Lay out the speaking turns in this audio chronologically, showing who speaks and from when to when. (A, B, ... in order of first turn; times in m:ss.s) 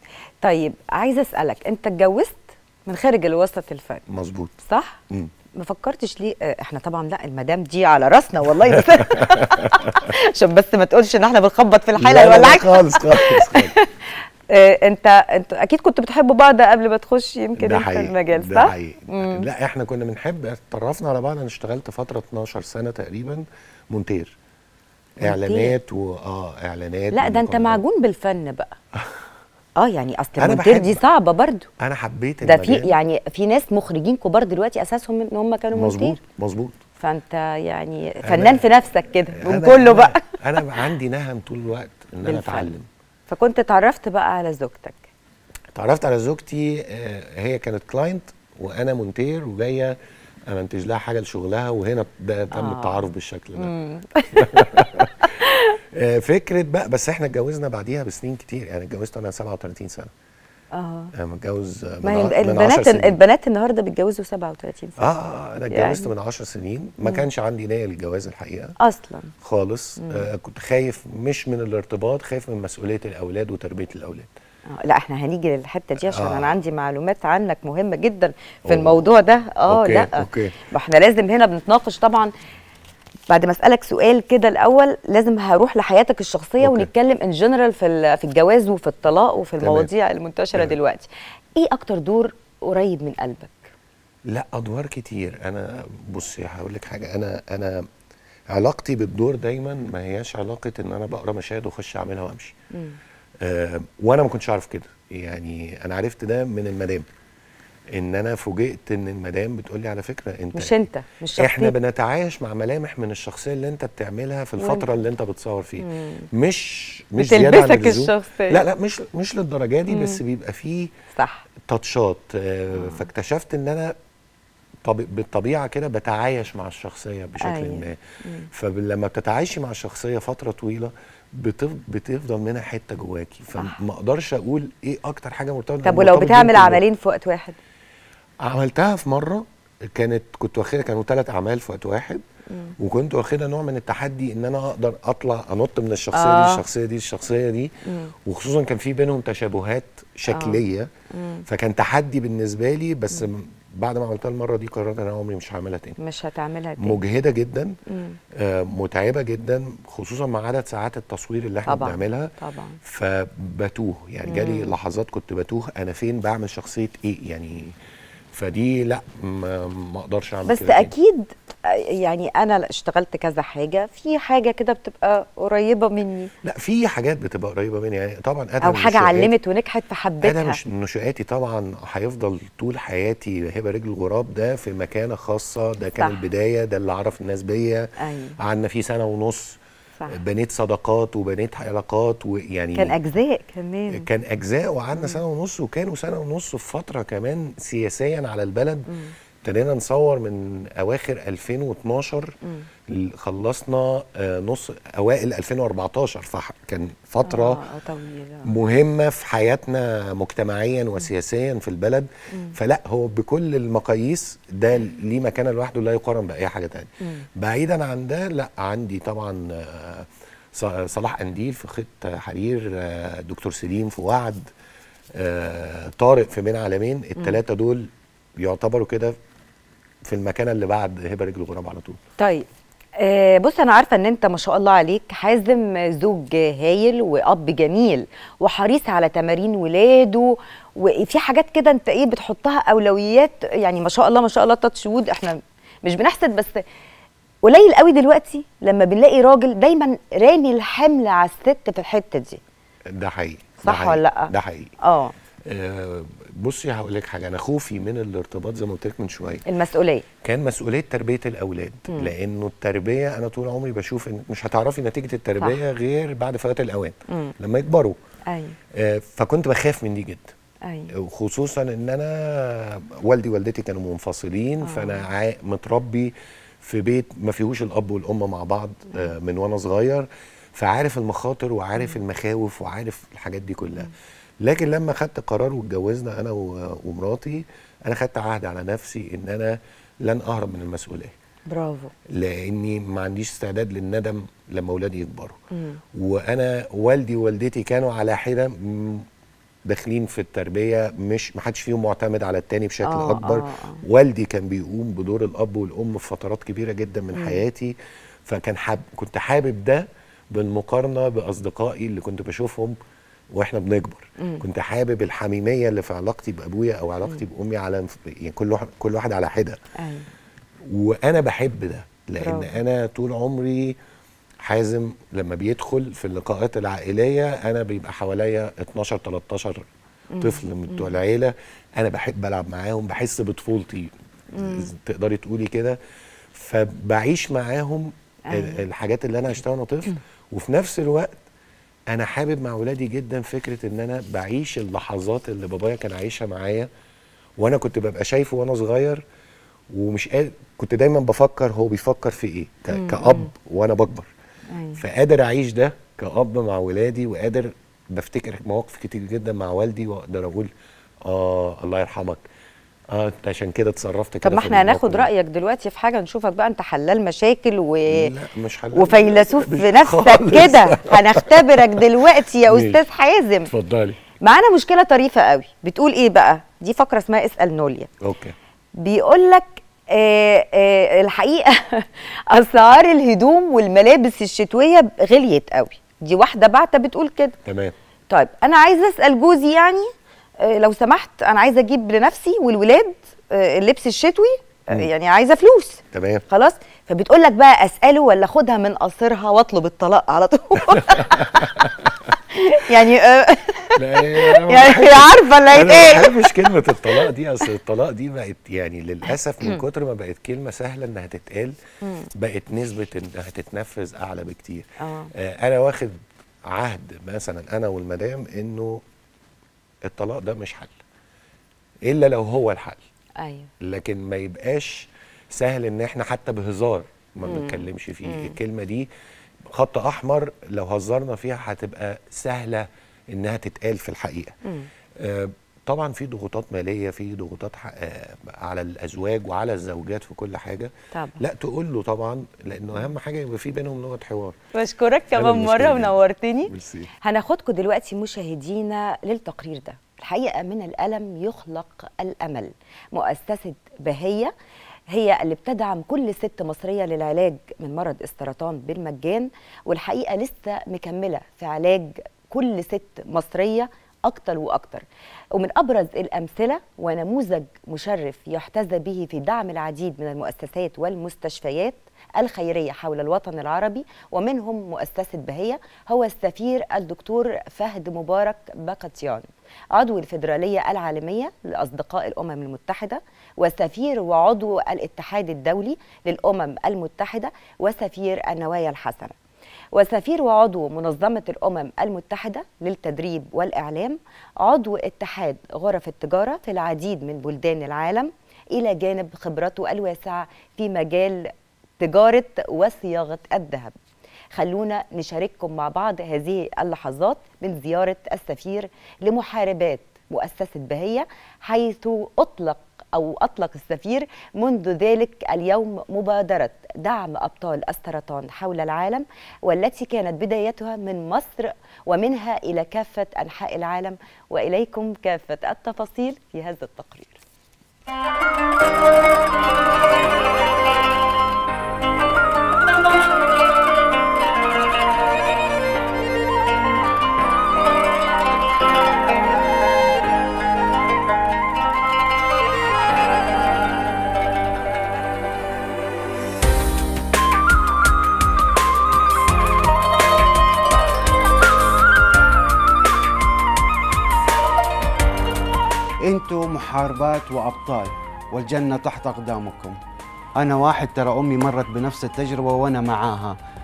0:00.4-0:04.0 A
0:04.1-0:04.6 B
0:04.6-0:05.0 A
0:05.5-0:13.9 A
0:12.0-0:13.7 B
0:14.5-0:19.4 A
0:17.6-0:24.3 B
0:25.2-0:27.8 B
0:25.2-0:25.8 A
0:27.1-0:28.8 A
0:29.8-0:31.7 A
0:30.4-0:31.0 B
0:31.8-0:32.9 B
0:32.4-0:36.2 A
0:35.7-0:36.8 B
0:37.0-0:40.7 A
0:38.2-0:38.7 B
0:39.3-0:42.9 B
0:42.2-0:42.7 A
0:43.3-0:45.1 A
0:45.7-0:50.0 B
0:50.5-0:53.7 B
0:52.5-0:53.0 A
0:53.6-0:54.6 A
0:54.4-0:55.2 B
0:55.9-1:00.1 B
1:00.7-1:01.1 A
1:01.2-1:03.2 B
1:02.0-1:05.0 A
1:05.0-1:08.7 B
1:05.7-1:06.1 A
1:08.8-1:09.3 A
1:09.4-1:14.3 B
1:10.0-1:10.2 A
1:14.7-1:22.3 A
1:16.0-1:16.5 B
1:18.7-1:19.0 B
1:19.7-1:20.6 B
1:23.3-1:33.7 A
1:26.6-1:26.9 B
1:29.6-1:29.9 B
1:34.3-1:37.8 B
1:38.5-1:42.5 B
1:43.4-1:47.0 B
1:47.9-1:50.7 B
1:50.5-1:51.7 A
1:51.4-2:00.9 B
1:54.6-1:54.8 A
1:55.8-1:56.3 A
1:57.2-1:58.6 A
1:59.9-2:00.2 A
2:01.2-2:01.4 A
2:01.7-2:03.9 B
2:02.7-2:03.0 A
2:04.8-2:08.0 B
2:07.4-2:08.5 A
2:08.5-2:16.8 B
2:15.8-2:17.6 A
2:18.4-2:22.2 B
2:22.8-2:27.7 B
2:26.1-2:26.6 A
2:28.2-2:30.9 B
2:30.3-2:30.6 A
2:31.1-2:31.4 A
2:31.5-2:36.0 B
2:36.0-2:37.0 A
2:36.8-2:37.8 B
2:37.9-2:38.2 A
2:38.4-2:42.3 B
2:41.7-2:42.8 A
2:42.8-2:47.7 B
2:44.2-2:44.7 A
2:48.3-2:50.9 B
2:50.5-2:56.3 A
2:56.4-2:59.3 B
2:58.6-3:00.6 A
3:00.2-3:07.9 B
3:06.0-3:06.2 A
3:08.0-3:08.3 A
3:08.4-3:09.6 B
3:10.1-3:12.9 B
3:12.8-3:14.0 A
3:13.9-3:18.9 B
3:19.4-3:22.3 B
3:22.9-3:27.6 B
3:27.2-3:28.5 A
3:28.5-3:44.5 B
3:45.2-3:47.9 B
3:48.4-3:49.1 B
3:50.0-3:52.0 B
3:52.2-3:52.5 A
3:53.0-4:06.6 A
4:07.4-4:12.4 A
4:12.9-4:14.7 B
4:13.6-4:15.1 A
4:15.5-4:19.4 B
4:19.5-4:20.0 A
4:20.2-4:28.0 B
4:28.3-4:28.6 A
4:28.8-4:30.3 B
4:30.6-4:30.9 A
4:30.9-4:43.9 B
4:34.6-4:35.0 A
4:44.4-4:51.1 B
4:51.5-4:51.9 A
4:52.1-4:55.4 B
4:55.5-4:55.8 A
4:55.9-4:59.0 B
4:59.7-5:07.8 B
5:02.8-5:03.8 A
5:07.1-5:07.4 A
5:08.2-5:12.8 B
5:13.3-5:19.6 B
5:14.2-5:14.4 A
5:19.8-5:20.1 A
5:20.7-5:23.8 B
5:22.2-5:22.6 A
5:24.4-5:29.7 B
5:30.1-5:30.9 A
5:30.2-5:35.8 B
5:34.3-5:34.7 A
5:36.3-5:41.2 B
5:38.3-5:38.6 A
5:41.9-5:46.7 B
5:47.4-5:49.0 B
5:49.7-5:54.1 B
5:52.7-5:53.3 A
5:54.5-5:54.8 A
5:54.8-6:00.5 B
6:01.0-6:02.2 B
6:02.9-6:05.1 B
6:04.2-6:08.1 A
6:07.9-6:11.2 B
6:08.7-6:13.5 A
6:12.5-6:12.8 B
6:13.5-6:14.0 B
6:14.2-6:17.9 A
6:18.0-6:18.3 B
6:18.8-6:27.4 A
6:27.4-6:27.7 B
6:28.1-6:29.9 A
6:30.4-6:41.4 A
6:35.9-6:36.2 B
6:40.8-6:41.6 B
6:42.3-6:47.0 A
6:43.8-6:51.6 B
6:51.8-6:52.1 A
6:52.2-6:58.8 B
6:54.8-6:55.1 A
6:59.9-7:00.8 B
7:01.8-7:02.8 B
7:03.2-7:03.5 A
7:03.6-7:08.9 B
7:07.2-7:08.4 A
7:09.5-7:14.3 B
7:15.0-7:24.4 B
7:20.9-7:21.2 A
7:24.5-7:34.3 A
7:25.1-7:26.9 B
7:34.9-8:09.1 A
8:09.7-8:23.8 A
8:24.3-8:47.2 A
9:16.0-9:19.8 C
9:20.4-9:23.4 C